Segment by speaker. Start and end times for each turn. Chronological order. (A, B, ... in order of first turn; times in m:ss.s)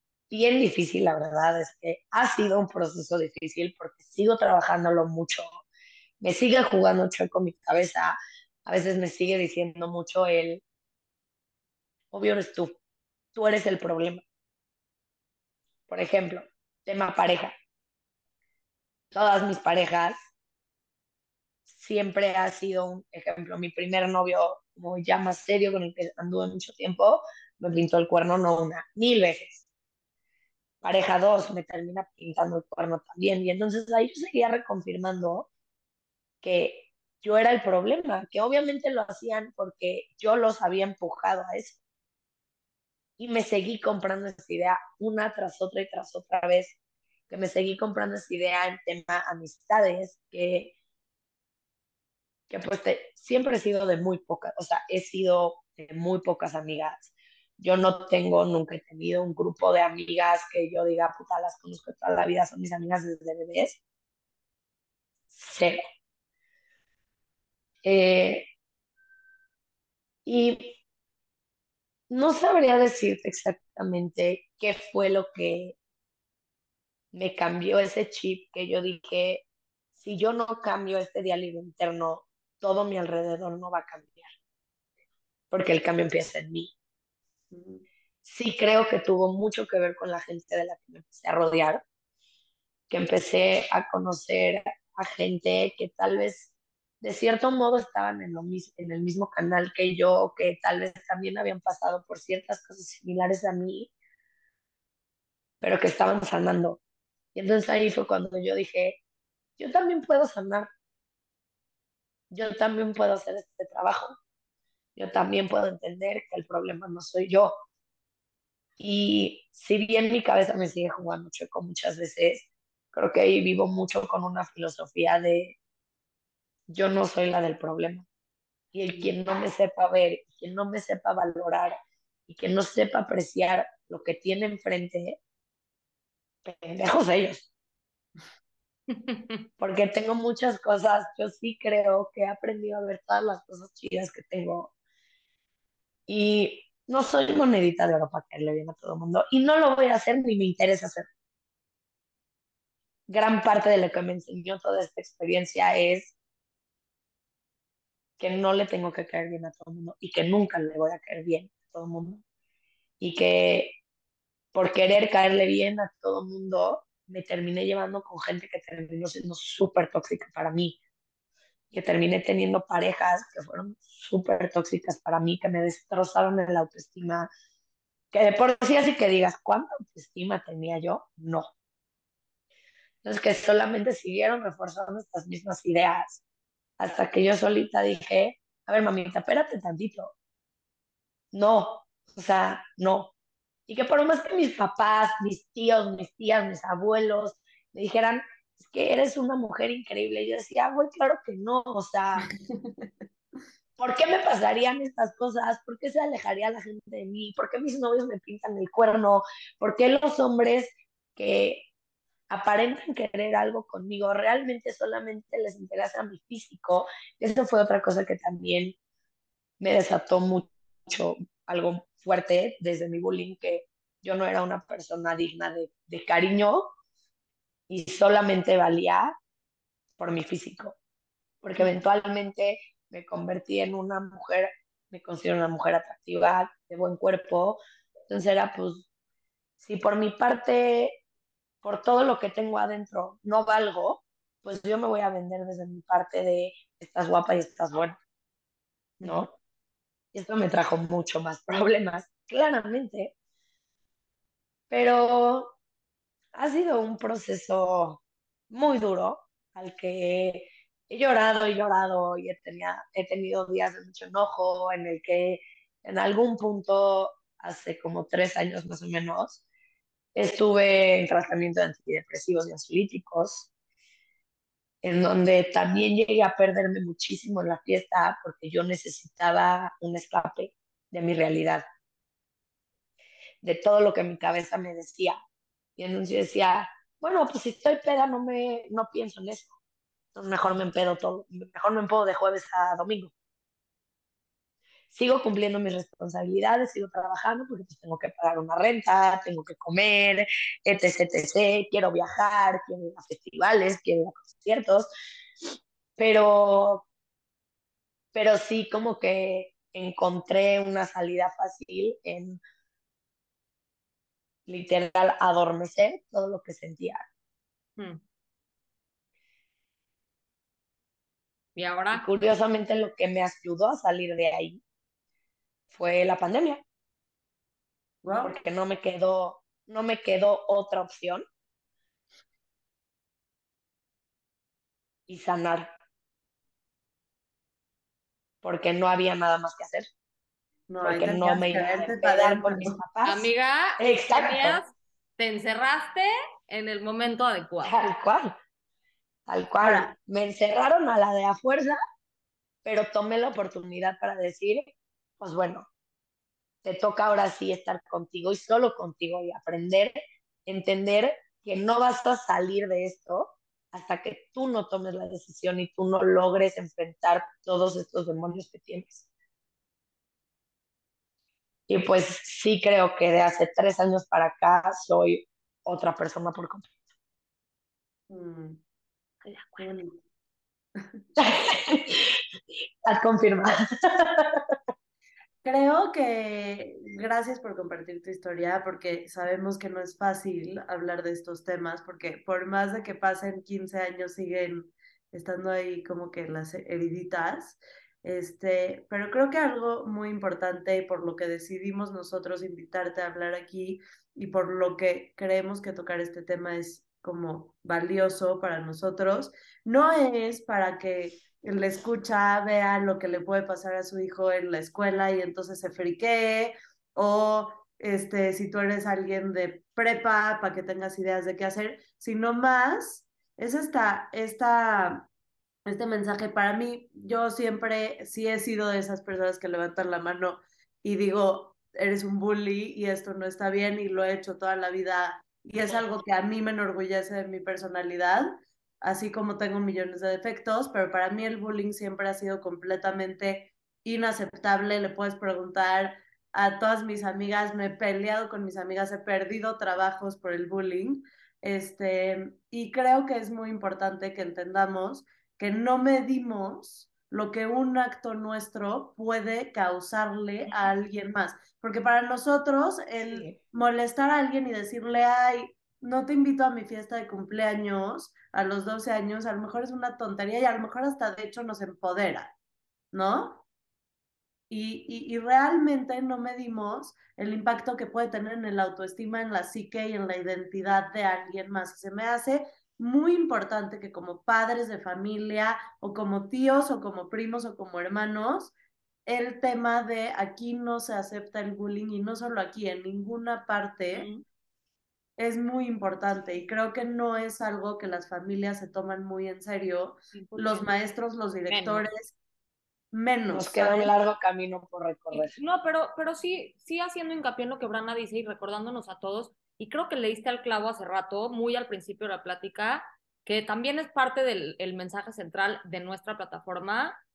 0:00.3-0:05.4 A
0:06.2-0:10.6 A
0:12.1-0:12.8 A
0:13.3-0:14.2 A
0:15.9-0:17.5 A
0:19.1-0:20.2 A
0:21.7-0:29.6 A
0:30.8-0:35.5 A
0:36.4-0:41.8 A
0:43.2-0:46.8 A
0:47.3-0:50.7 A
0:52.5-1:03.8 A
1:05.3-1:05.8 A
1:07.8-1:08.5 A
1:10.2-1:10.8 A
1:12.1-1:15.7 A
1:17.1-1:19.4 A
1:20.0-1:24.3 A
1:25.5-1:26.7 A
1:27.5-1:27.8 B
1:28.2-1:31.8 A
1:32.9-1:43.9 A
1:45.6-1:46.8 A
1:47.3-1:49.0 A
1:49.6-1:50.7 A
1:52.3-1:54.2 A
1:55.0-1:57.6 A
1:58.8-2:05.5 A
2:06.7-2:08.0 A
2:08.7-2:11.8 A
2:12.3-2:15.2 A
2:16.4-2:17.5 A
2:18.9-2:19.4 C
2:19.6-2:24.7 A
2:26.1-2:31.1 A
2:33.1-2:36.1 A
2:38.2-2:42.2 A
2:43.0-2:43.7 A
2:44.5-2:50.8 A
2:51.7-2:57.3 A
2:58.1-3:01.5 A
3:03.0-3:06.2 A
3:06.8-3:10.1 A
3:11.3-3:13.1 A
3:13.7-3:22.2 A
3:22.4-3:22.9 B
3:23.8-3:31.6 A
3:32.3-3:38.7 A
3:39.6-3:46.7 A
3:47.7-3:49.1 A
3:50.0-3:50.8 A
3:51.4-3:58.8 A
3:59.6-4:01.0 A
4:01.6-4:08.0 A
4:09.0-4:09.3 A
4:10.1-4:13.1 A
4:14.7-4:15.6 A
4:16.3-4:29.4 A
4:30.2-4:33.5 A
4:34.8-4:41.6 A
4:43.4-4:45.2 A
4:45.8-4:49.5 A
4:50.1-4:53.1 A
4:54.9-5:04.9 A
5:06.0-5:06.8 A
5:08.1-5:12.4 A
5:14.5-5:17.0 A
5:21.6-5:22.1 C
5:21.9-5:24.6 A
5:25.7-5:26.6 A
5:28.0-5:28.3 B
5:28.2-5:31.2 A
5:35.1-5:35.7 A
5:38.4-5:39.9 A
5:40.7-5:42.8 B
5:40.8-5:44.6 A
5:43.0-5:47.8 C
5:47.6-5:48.4 A
5:49.3-5:51.8 A
5:49.6-5:49.9 B
5:52.6-5:55.6 A
5:56.6-6:09.0 A
6:11.7-6:16.7 A
6:18.1-6:18.6 B
6:19.2-6:19.7 C
6:19.6-6:20.0 B
6:21.2-6:22.2 A
6:22.8-6:24.4 A
6:25.4-7:05.1 B
7:05.7-7:52.3 B
7:43.1-7:43.4 A
7:52.9-7:53.4 B
7:54.5-8:08.5 B
8:09.0-8:14.1 B
8:13.9-8:14.2 C
8:15.2-8:22.1 B
8:20.1-8:20.7 C
8:21.5-8:21.9 C
8:22.9-8:23.9 B
8:23.3-8:25.3 A
8:25.1-8:37.0 C